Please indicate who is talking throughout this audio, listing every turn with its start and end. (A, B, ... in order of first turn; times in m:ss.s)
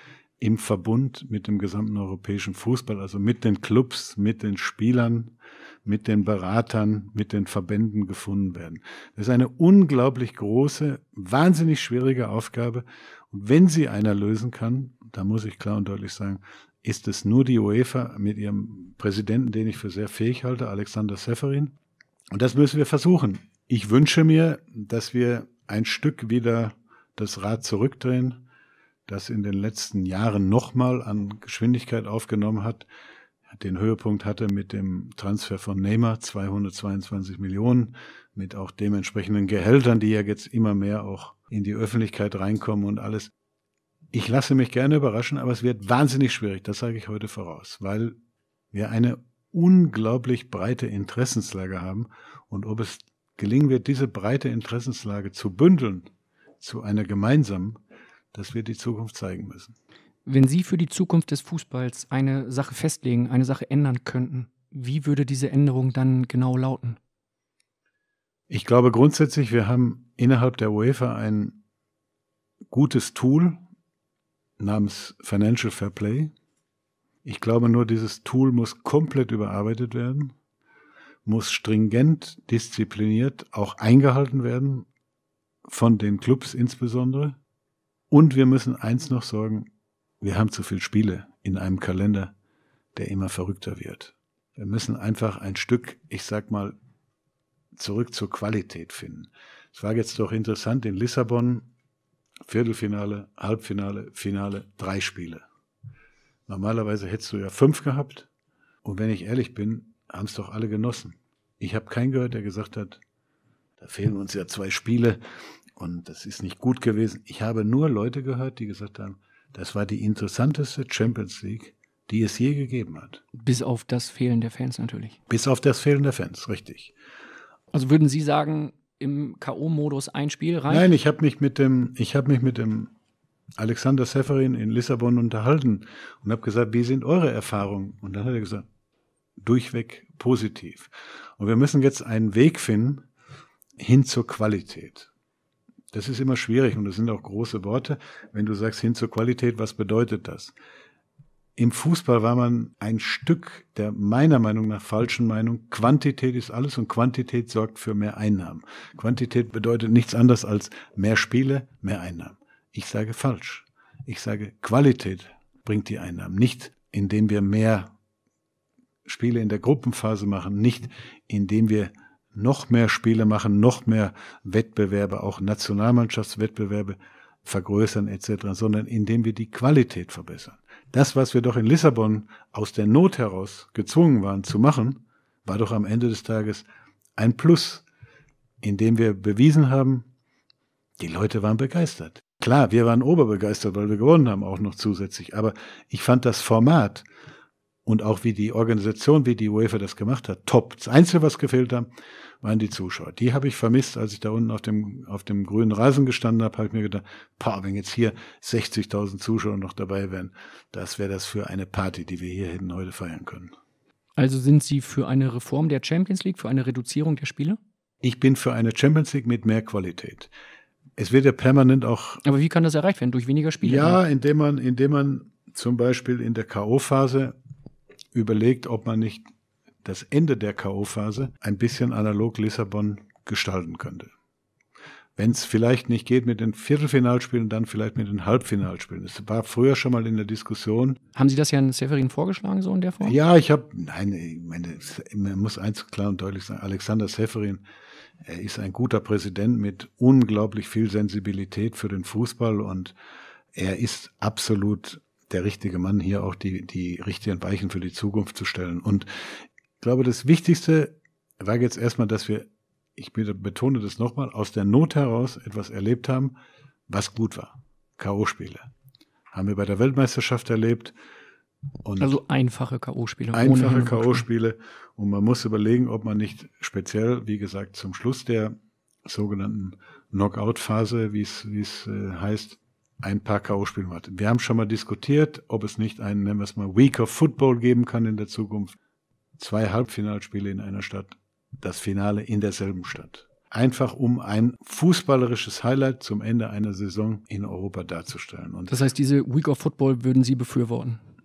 0:00.4-0:05.3 A
0:05.8-0:21.7 A
0:22.3-0:28.4 A
0:29.1-0:32.9 A
0:33.6-0:43.3 A
0:44.1-0:48.2 A
0:48.7-0:56.1 A
0:56.6-0:57.8 A
0:58.3-0:59.8 A
1:00.2-1:07.0 B
1:08.5-1:11.6 A
1:12.7-1:13.6 A
1:14.6-1:16.3 A
1:17.2-1:20.3 A
1:21.2-1:24.8 A
1:25.7-1:27.4 A
1:28.1-1:29.7 A
1:30.2-1:32.3 A
1:32.9-1:36.8 A
1:37.8-1:41.7 A
1:42.4-1:45.4 A
1:46.5-1:48.3 A
1:48.8-1:53.0 A
1:53.8-1:55.2 A
1:55.8-2:03.2 A
2:03.3-2:05.2 B
2:05.3-2:06.9 A
2:07.7-2:10.9 B
2:10.7-2:12.9 A
2:13.6-2:18.6 A
2:19.4-2:23.0 A
2:23.8-2:25.1 A
2:25.9-2:30.5 A
2:31.6-2:47.9 A
2:49.0-3:07.8 A
3:08.6-3:10.1 A
3:11.0-3:17.0 A
3:17.8-3:21.9 A
3:22.4-3:33.5 A
3:34.2-3:37.6 B
3:38.0-3:40.3 A
3:41.0-3:42.2 A
3:42.2-3:44.0 B
3:43.6-3:47.4 A
3:48.1-3:49.3 A
3:49.8-3:54.1 A
3:55.2-4:01.0 A
4:01.1-4:03.2 B
4:03.0-4:07.6 A
4:08.2-4:12.9 A
4:13.5-4:19.1 A
4:19.8-4:26.3 A
4:26.9-4:28.7 A
4:29.3-4:30.9 A
4:31.8-4:32.2 A
4:32.0-4:34.2 B
4:33.3-4:48.8 A
4:49.4-4:58.8 A
4:58.7-5:01.0 B